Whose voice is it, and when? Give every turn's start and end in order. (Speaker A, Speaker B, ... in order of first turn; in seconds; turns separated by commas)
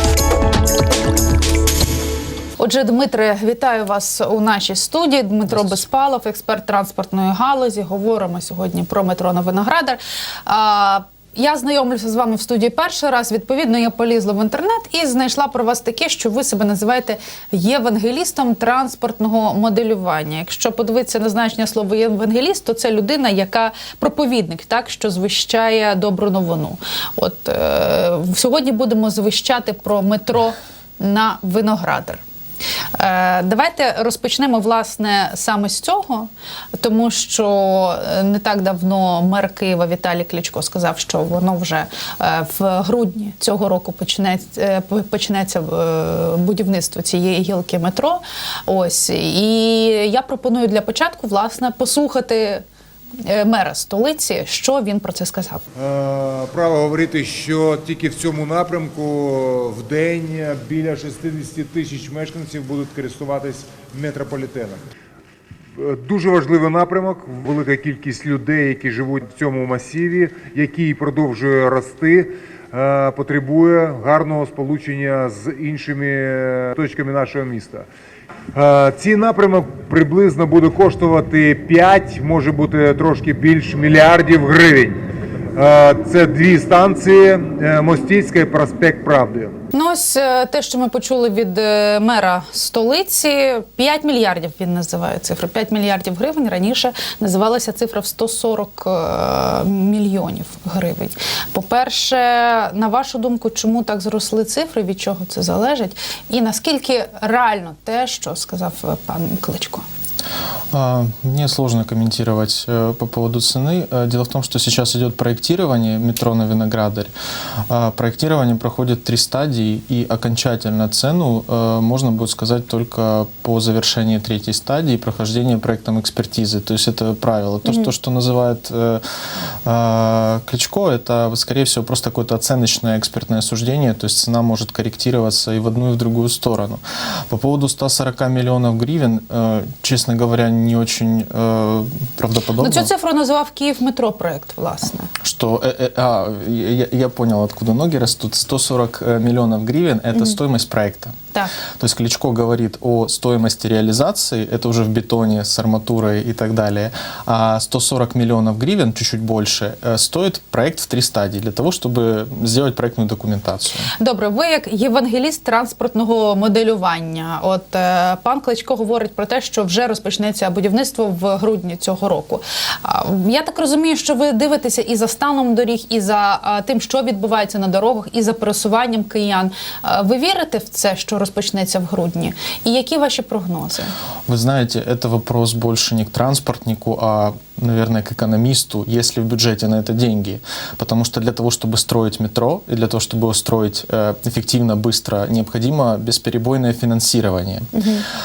Speaker A: 2.6-32.2, Speaker A: 33.0-52.6, Speaker A: 53.2-55.6, Speaker B: 55.8-64.8, Speaker B: 65.8-77.9, Speaker B: 78.5-85.0, Speaker B: 85.5-89.5, Speaker A: 89.7-109.8, Speaker C: 110.7-117.1, Speaker C: 117.7-129.0, Speaker C: 129.7-142.9, Speaker A: 142.6-145.1, Speaker C: 145.2-151.1, Speaker C: 151.8-163.9, Speaker A: 164.0-183.9, Speaker C: 184.3-197.7, Speaker A: 197.8-198.1